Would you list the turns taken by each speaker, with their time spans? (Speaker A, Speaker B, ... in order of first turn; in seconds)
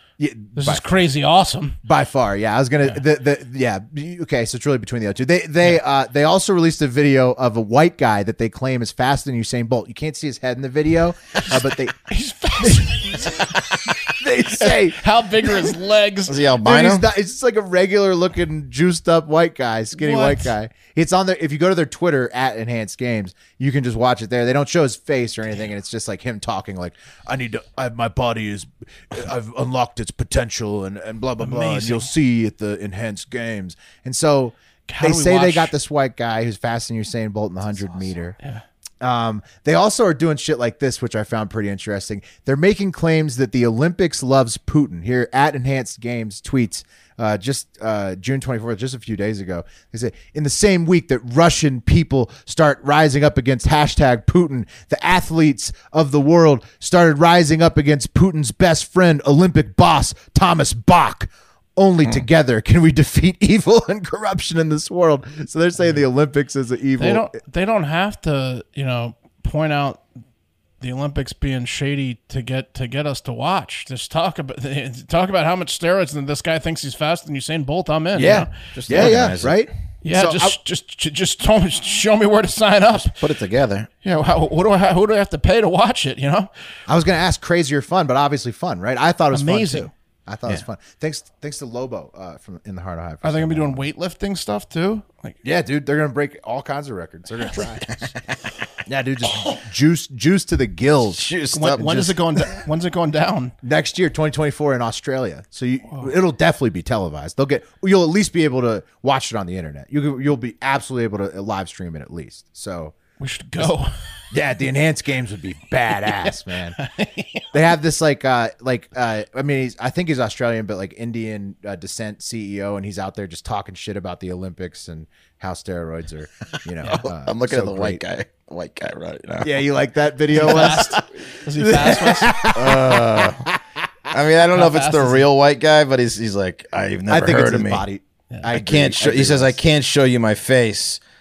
Speaker A: 0.2-0.8, 1.8-12.0, 12.6-13.5, 14.1-15.7, 16.6-38.3, 39.0-67.3, 78.1-80.6, 86.9-93.8, 95.4-98.1, 98.8-101.3, 103.6-112.9, 114.3-116.8, 117.5-128.0, 129.4-133.3, 137.1-139.6
Speaker B: 0.5-1.8, 11.4-16.4, 19.9-20.5, 31.4-32.1, 34.9-35.7, 38.4-38.6, 67.0-70.0, 70.8-79.3, 80.0-83.2, 84.0-86.5, 89.3-89.9, 93.2-95.4, 101.5-103.5, 113.2-114.0, 116.8-117.5, 130.3-132.3, 134.5-135.2
Speaker C: 16.3-17.1, 78.7-79.7, 82.9-83.9, 101.1-102.1, 126.8-129.6, 130.4-130.8, 132.5-133.5, 134.1-137.8, 138.4-141.0